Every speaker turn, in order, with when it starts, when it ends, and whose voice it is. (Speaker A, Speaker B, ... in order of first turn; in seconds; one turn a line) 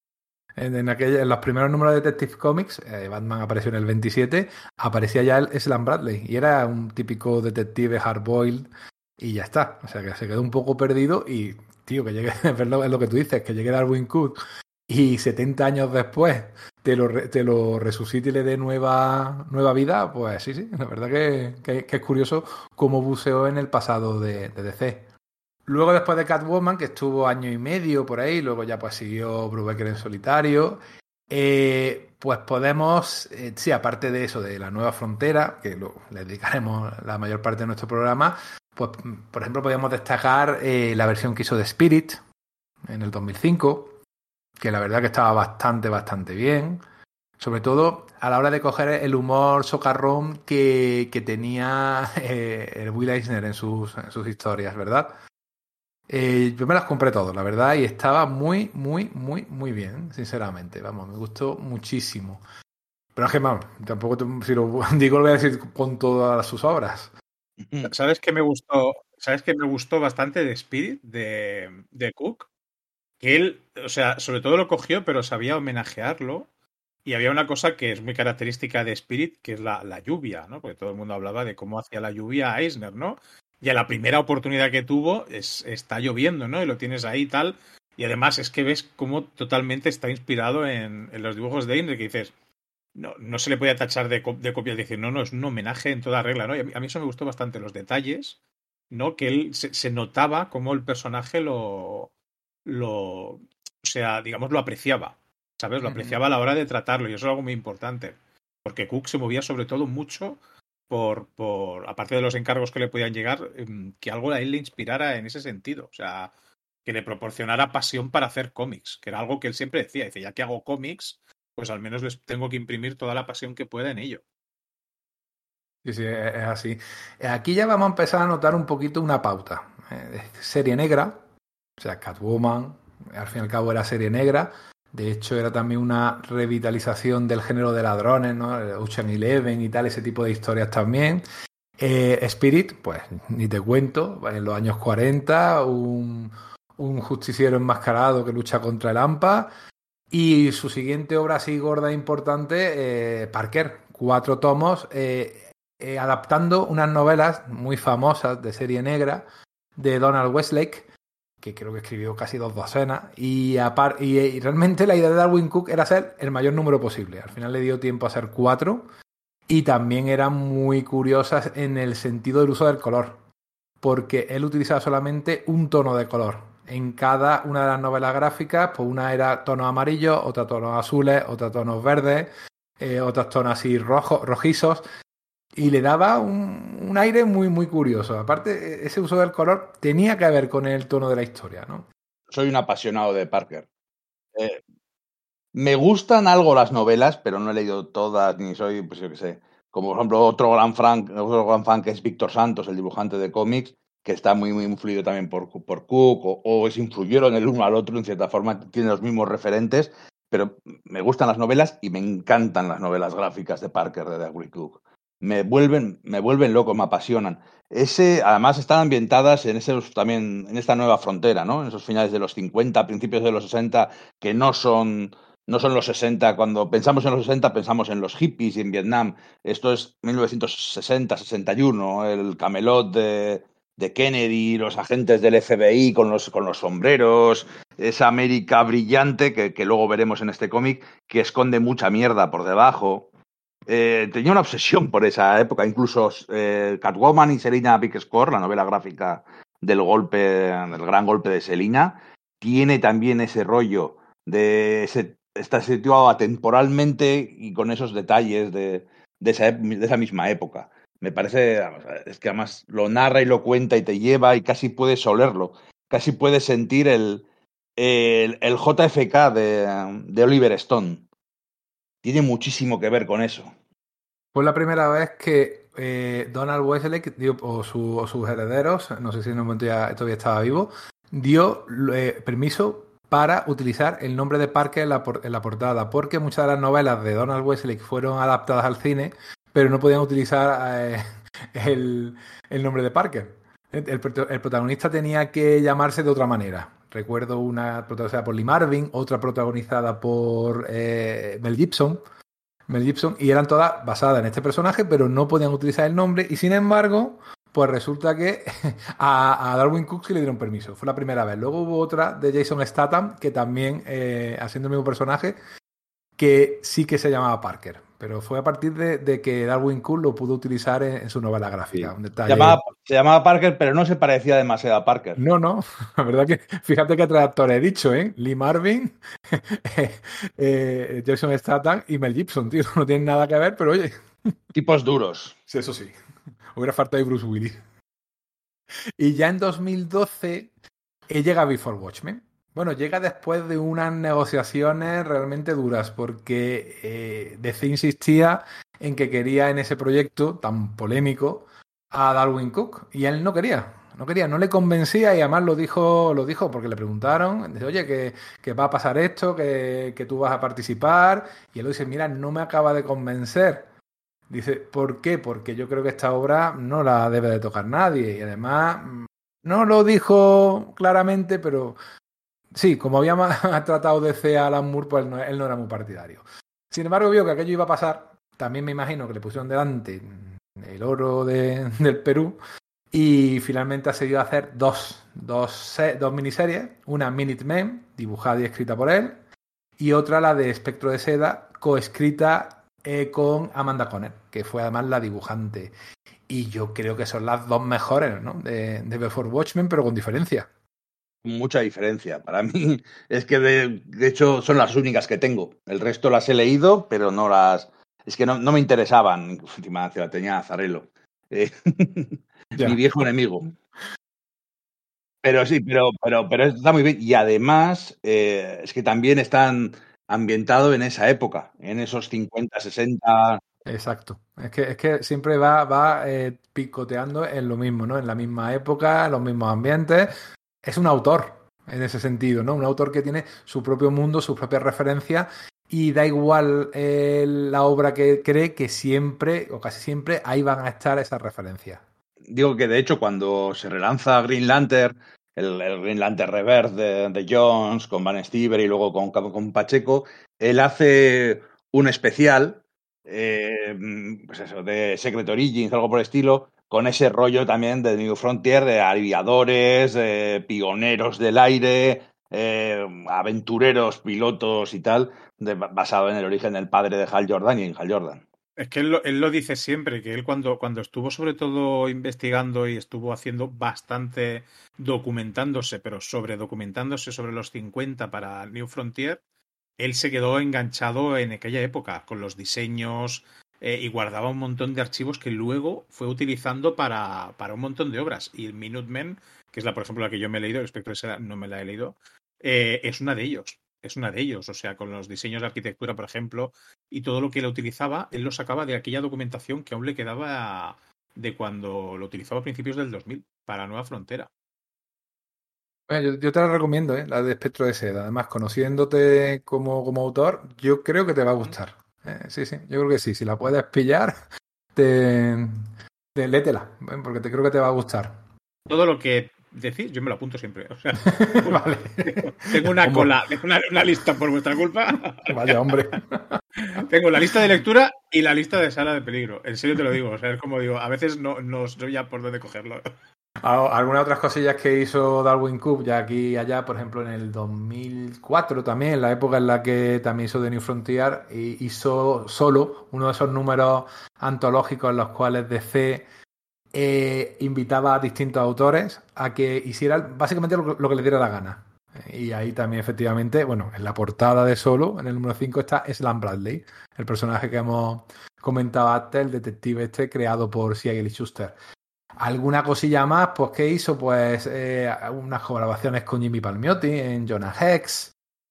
Speaker A: 0.6-25.1
Speaker A: 25.6-30.8
Speaker A: 31.3-42.2
Speaker A: 42.9-44.0
Speaker A: 44.6-46.8
Speaker A: 47.4-55.1
Speaker A: 56.1-62.4
Speaker A: 63.1-67.1
Speaker B: 67.8-72.5
Speaker B: 73.2-76.5
Speaker B: 77.0-92.3
Speaker B: 92.9-98.4
Speaker B: 98.9-102.1
Speaker B: 102.6-116.3
Speaker A: 105.8-106.2
Speaker B: 116.8-124.2
Speaker A: 125.8-131.2
Speaker A: 131.8-141.2
Speaker A: 141.8-149.5
Speaker A: 150.1-160.9
Speaker A: 161.4-168.9
Speaker A: 169.5-173.2
Speaker A: 173.8-184.8
Speaker A: 185.6-191.9
Speaker C: 192.3-193.7
Speaker C: 194.3-194.6
Speaker C: 195.5-243.1
Speaker C: 243.7-267.2
Speaker C: 267.8-271.0
Speaker C: 272.0-273.5
Speaker A: 274.3-302.0
Speaker A: 302.7-315.4
Speaker A: 316.2-322.6
Speaker C: 321.7-325.2
Speaker A: 325.2-334.4
Speaker C: 334.5-335.4
Speaker A: 335.5-335.9
Speaker A: 336.5-337.6
Speaker A: 339.0-340.5
Speaker A: 341.1-363.7
Speaker A: 364.3-371.8
Speaker A: 372.5-382.4
Speaker A: 382.9-389.2
Speaker A: 389.8-395.7
Speaker A: 396.3-400.5
Speaker C: 401.2-413.5
Speaker A: 412.5-412.8
Speaker C: 415.2-423.4
Speaker A: 423.6-441.8
Speaker C: 442.3-468.2
Speaker B: 468.6-479.2
Speaker B: 479.8-504.3
Speaker A: 505.9-514.1
Speaker A: 514.7-518.2
Speaker B: 518.7-525.6
Speaker A: 521.0-523.1
Speaker A: 525.3-527.4
Speaker B: 526.8-532.8
Speaker A: 533.4-546.0
Speaker A: 546.7-561.5
Speaker A: 562.2-568.1